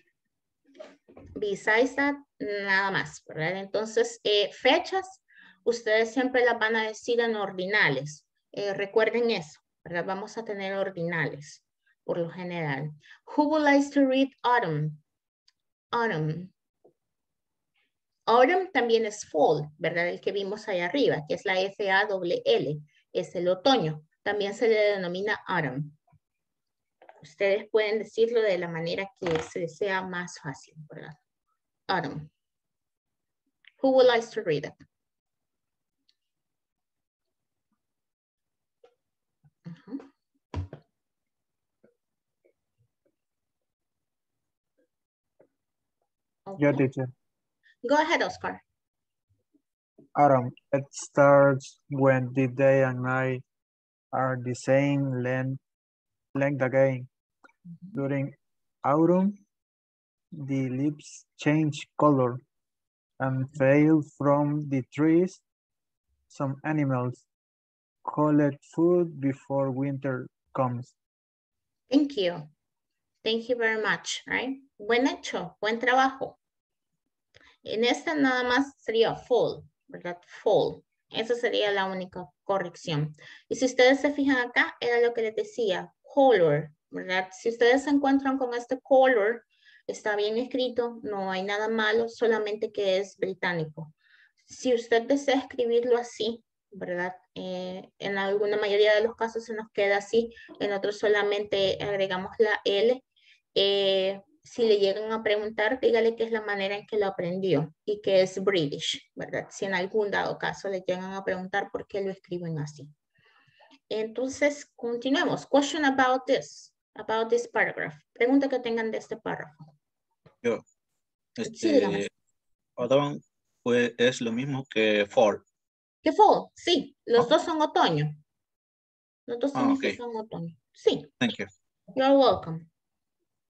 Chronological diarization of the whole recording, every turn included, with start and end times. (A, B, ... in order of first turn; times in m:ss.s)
0:01.4-0:15.0 A
0:15.9-0:16.5 A
0:18.3-0:26.0 A
0:27.2-0:31.2 A
0:31.9-0:32.3 A
0:33.8-0:34.8 A
0:39.7-0:40.0 A
0:46.4-0:46.9 A
0:46.6-0:47.1 B
0:47.8-0:48.6 A
0:50.2-0:53.4 B
0:54.1-0:55.6 B
0:56.3-0:57.1 B
0:57.9-0:59.4 B
1:00.3-1:02.4 B
1:03.2-1:05.4 B
1:06.3-1:07.2 B
1:08.0-1:10.9 B
1:11.9-1:12.5 A
1:13.2-1:16.4 A
1:17.6-1:33.9 A
1:34.4-1:43.0 A
1:43.5-1:52.9 A
1:53.9-1:59.6 A
2:01.4-2:02.1 C
2:01.4-2:02.0 A
2:02.8-2:05.4 C
2:06.0-2:08.2 A
2:09.3-2:11.1 A
2:09.5-2:10.0 C
2:11.2-2:11.5 C
2:11.9-2:12.7 A